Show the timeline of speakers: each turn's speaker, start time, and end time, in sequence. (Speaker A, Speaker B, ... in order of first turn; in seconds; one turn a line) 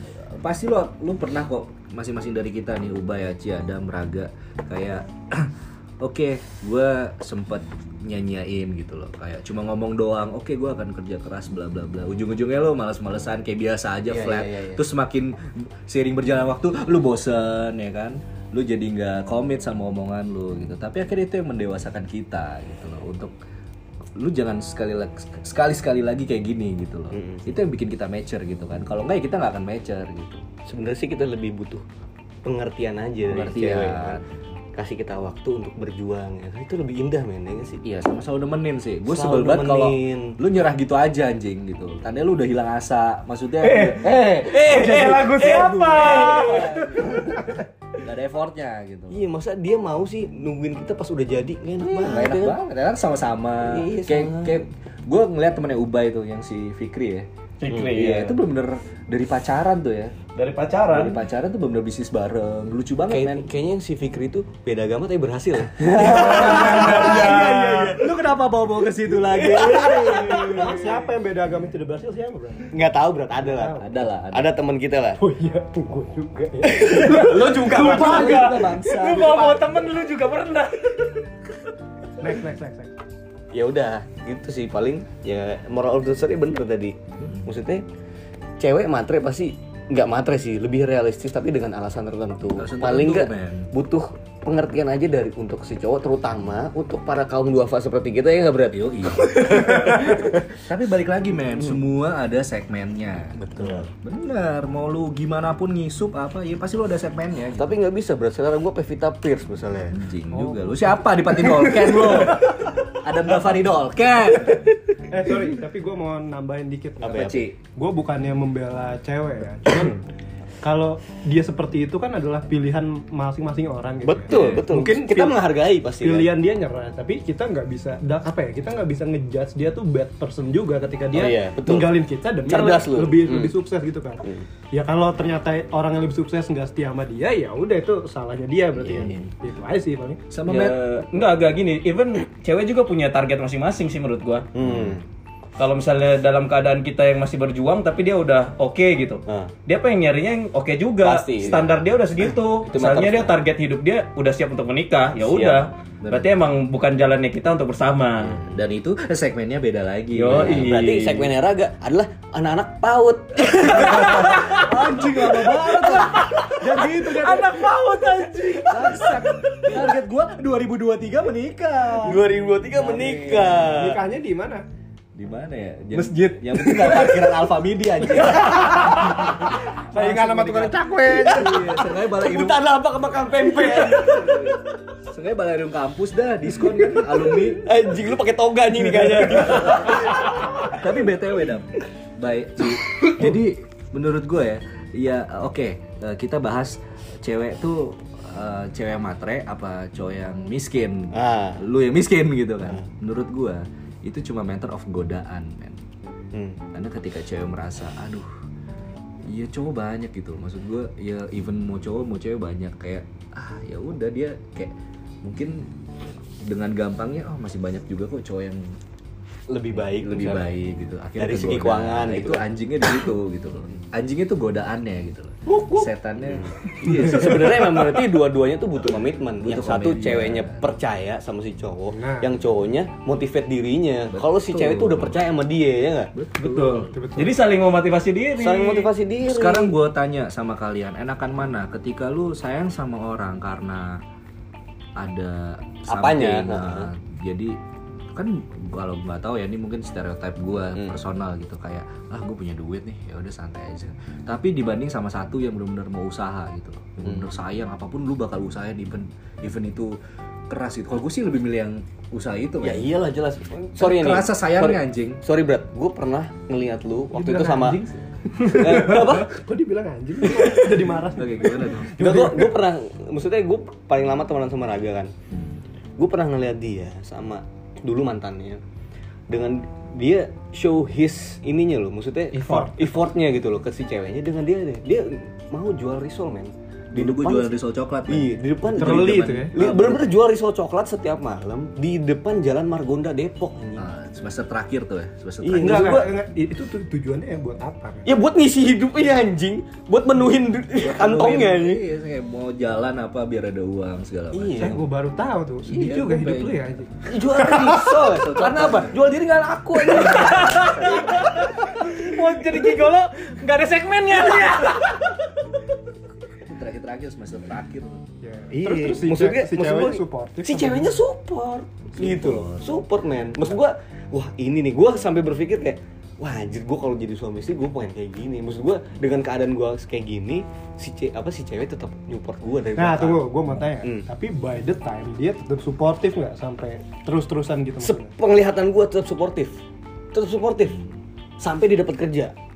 Speaker A: 0.2-23.3
Speaker B: 14.1-14.8
Speaker A: 24.2-30.4
Speaker B: 27.1-27.5
Speaker B: 30.7-31.9
Speaker B: 32.4-34.2
Speaker A: 33.2-34.3
Speaker B: 34.8-37.8
Speaker A: 37.8-49.2
Speaker B: 39.1-40.4
Speaker C: 43.6-47.2
Speaker B: 44.3-47.3
Speaker B: 49.1-52.6
Speaker A: 51.8-57.3
Speaker B: 53.6-54.6
Speaker C: 57.6-58.4
Speaker A: 57.9-60.1
Speaker C: 60.4-61.2
Speaker A: 60.9-63.5
Speaker B: 63.1-68.0
Speaker A: 65.9-70.8
Speaker C: 66.0-68.0
Speaker B: 69.2-71.0
Speaker D: 70.4-72.7
Speaker B: 72.7-75.2
Speaker D: 73.4-73.9
Speaker A: 73.8-74.5
Speaker D: 75.2-77.7
Speaker B: 76.6-78.5
Speaker C: 76.9-81.1
Speaker A: 77.6-79.6
Speaker D: 82.2-82.9
Speaker B: 83.5-87.8
Speaker B: 88.6-100.5
Speaker A: 92.5-93.7
Speaker A: 98.7-107.7
Speaker B: 103.4-103.9
Speaker B: 107.6-110.0
Speaker A: 109.9-114.6
Speaker D: 110.3-111.0
Speaker D: 115.1-120.0
Speaker B: 117.0-117.4
Speaker A: 117.1-117.6
Speaker D: 120.6-125.4
Speaker B: 124.0-126.3
Speaker A: 124.3-124.7
Speaker D: 126.0-140.2
Speaker B: 131.1-133.5
Speaker B: 138.8-139.2
Speaker A: 140.3-141.1
Speaker C: 140.4-144.5
Speaker B: 144.5-145.0
Speaker A: 144.6-144.9
Speaker C: 145.6-158.4
Speaker B: 149.3-149.5
Speaker B: 151.0-153.3
Speaker B: 155.2-155.7
Speaker A: 156.0-156.3
Speaker A: 158.4-160.7
Speaker C: 160.1-161.3
Speaker B: 160.3-164.6
Speaker A: 163.7-167.0
Speaker C: 163.9-164.7
Speaker C: 165.4-169.3
Speaker D: 166.6-167.3
Speaker A: 168.6-173.8
Speaker B: 172.0-174.0
Speaker D: 173.6-174.6
Speaker A: 175.1-180.5
Speaker B: 176.0-177.3
Speaker B: 178.2-178.9
Speaker D: 178.3-181.6
Speaker C: 180.0-180.7
Speaker B: 181.0-184.6
Speaker A: 181.2-182.7
Speaker A: 183.4-187.7
Speaker B: 187.0-190.3
Speaker A: 189.0-205.8
Speaker B: 201.1-201.6
Speaker B: 206.3-206.6
Speaker A: 206.7-208.3
Speaker A: 209.2-215.7
Speaker A: 216.4-218.8
Speaker B: 219.5-220.5
Speaker A: 219.7-228.0
Speaker B: 221.2-223.0
Speaker B: 225.5-236.1
Speaker A: 229.4-230.7
Speaker D: 231.9-232.3
Speaker A: 234.1-235.2
Speaker A: 236.1-236.9
Speaker C: 236.4-238.9
Speaker D: 236.9-237.4
Speaker B: 238.4-239.7
Speaker A: 239.2-244.0
Speaker A: 245.0-247.6
Speaker B: 245.9-246.9
Speaker A: 248.1-260.0
Speaker A: 260.5-262.9
Speaker B: 262.6-267.8
Speaker A: 263.8-265.2
Speaker D: 267.1-272.5
Speaker B: 268.5-269.4
Speaker B: 270.3-270.6
Speaker A: 271.1-272.0
Speaker B: 272.0-275.1
Speaker B: 276.0-278.6
Speaker B: 279.3-287.5
Speaker C: 282.3-282.8
Speaker D: 282.4-282.8
Speaker A: 286.9-290.1
Speaker B: 288.1-293.9
Speaker D: 288.8-289.6
Speaker A: 293.8-296.0
Speaker B: 295.4-296.1
Speaker D: 295.6-298.1
Speaker B: 298.1-301.8
Speaker A: 300.8-304.8
Speaker B: 304.3-304.8
Speaker D: 304.6-307.9
Speaker A: 305.6-306.7
Speaker B: 307.1-311.2
Speaker A: 308.0-309.1
Speaker C: 309.8-315.0
Speaker A: 310.4-311.1
Speaker A: 316.4-318.0
Speaker D: 318.2-321.0
Speaker B: 318.5-333.2
Speaker A: 321.9-322.8
Speaker D: 332.8-338.1
Speaker B: 337.8-339.6
Speaker B: 340.1-340.8
Speaker B: 341.4-342.3